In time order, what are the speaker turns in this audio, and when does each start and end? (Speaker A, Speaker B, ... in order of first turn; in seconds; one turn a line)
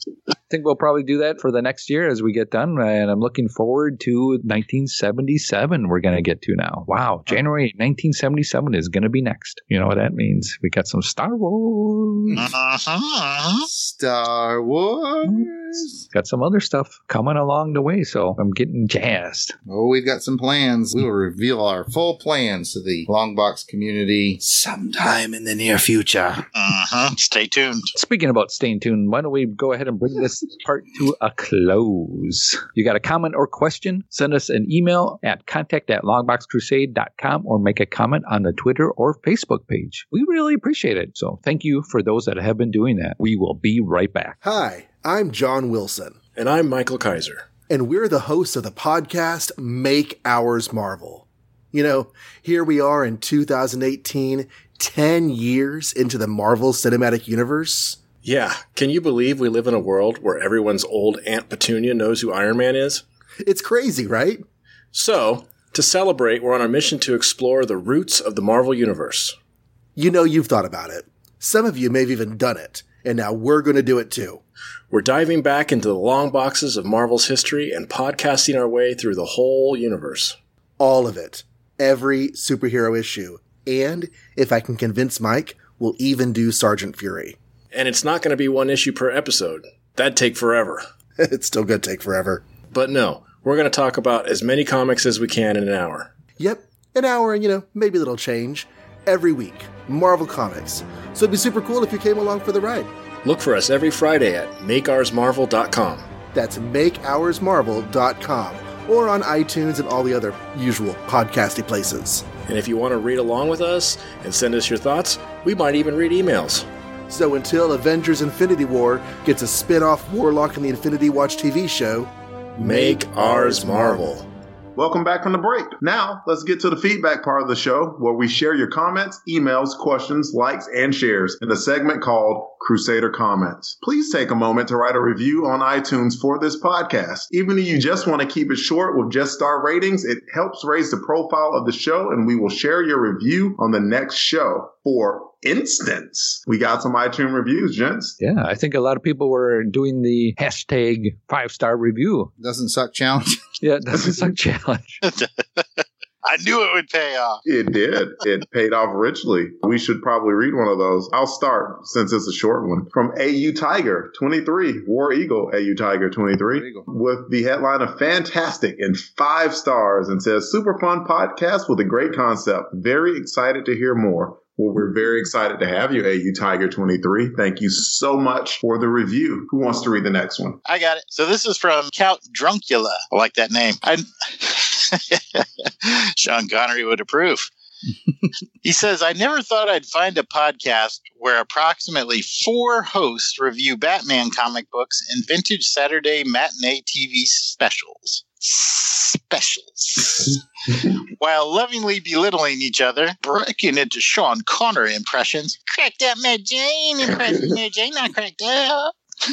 Speaker A: 0.5-12.4
Speaker B: 12.3-13.7
Speaker C: 13.6-16.0
Speaker A: 15.2-15.5
Speaker A: 16.1-19.6
Speaker C: 19.7-26.5
Speaker B: 26.6-27.9
Speaker A: 27.9-44.4
Speaker D: 44.4-46.2
Speaker E: 46.4-47.5
Speaker D: 47.7-58.0
Speaker E: 58.2-63.0
Speaker D: 63.4-64.4
Speaker E: 64.9-69.3
Speaker D: 70.0-74.4
Speaker E: 74.9-80.4
Speaker D: 80.8-87.4
Speaker E: 87.7-90.8
Speaker D: 91.2-92.4
Speaker E: 92.7-96.1
Speaker D: 96.4-102.9
Speaker E: 103.2-106.1
Speaker D: 106.3-112.3
Speaker E: 112.5-116.7
Speaker D: 117.1-124.1
Speaker E: 122.6-124.3
Speaker F: 124.8-148.2
Speaker A: 148.2-152.3
Speaker C: 152.4-153.4
Speaker A: 153.6-155.0
Speaker B: 155.1-157.4
Speaker F: 157.5-180.6
Speaker C: 166.5-166.9
Speaker B: 180.7-187.5
Speaker B: 188.6-200.4
Speaker B: 201.2-208.9